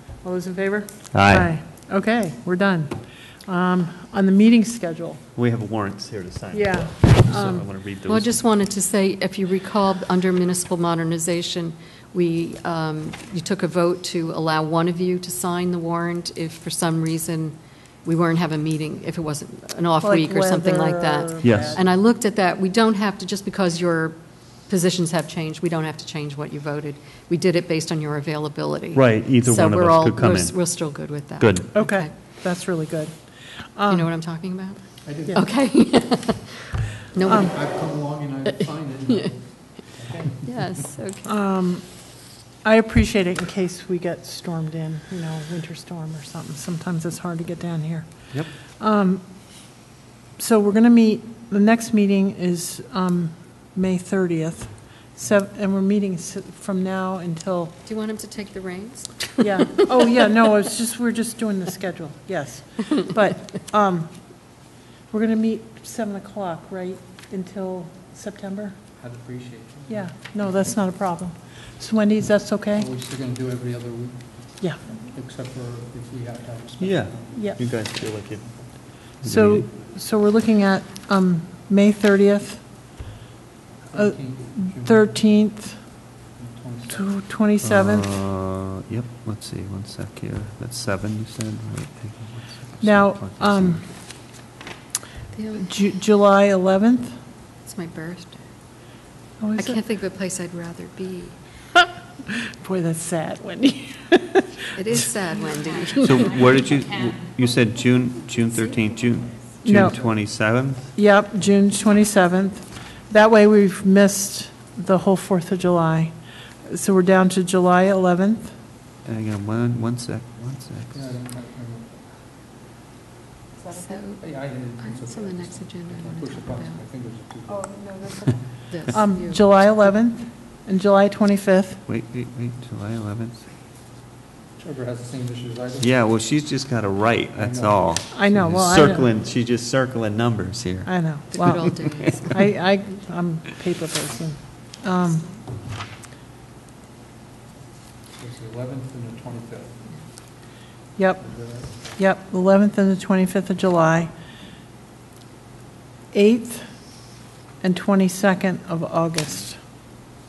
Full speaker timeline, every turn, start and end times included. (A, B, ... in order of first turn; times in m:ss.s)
0:00.2-0:05.2 A
0:01.1-0:01.5 B
0:05.4-0:08.3 B
0:06.5-0:07.6 A
0:08.1-0:32.1 C
0:20.0-0:21.8 A
0:21.4-0:21.8 B
0:28.9-0:31.7 B
0:31.7-0:34.1 A
0:33.9-0:37.6 C
0:35.0-0:35.4 D
0:37.3-0:40.9 D
0:39.1-0:39.3 C
0:40.4-0:41.4 C
0:41.3-0:49.8 A
0:50.4-0:57.7 A
0:57.8-0:59.7 C
0:59.4-1:08.8 A
1:09.0-1:10.7 D
1:09.9-1:12.9 A
1:12.7-1:17.6 D
1:16.8-1:19.7 B
1:17.3-1:17.6 A
1:19.2-1:22.6 A
1:23.9-1:25.2 D
1:23.9-1:25.9 A
1:26.3-1:27.2 D
1:26.9-1:28.1 A
1:27.6-1:33.8 B
1:32.8-1:33.8 A
1:35.3-1:35.9 C
1:35.6-1:37.2 A
1:37.6-1:38.6 C
1:39.4-1:39.8 A
1:39.6-1:41.6 C
1:42.6-1:44.5 A
1:44.7-1:46.6 C
1:46.0-1:50.9 B
1:49.6-1:49.9 A
1:51.0-1:58.6 A
1:59.0-2:01.0 B
2:00.9-2:02.2 D
2:03.7-2:06.8 C
2:04.1-2:08.4 D
2:08.7-2:09.7 C
2:08.9-2:11.8 A
2:11.9-2:13.5 B
2:14.6-2:15.9 D
2:15.8-2:22.5 B
2:17.4-2:18.3 D
2:18.1-2:19.1 A
2:20.8-2:25.2 A
2:21.4-2:22.3 C
2:28.1-2:29.8 D
2:31.0-2:34.1 A
2:31.2-2:31.8 D
2:36.1-2:39.6 A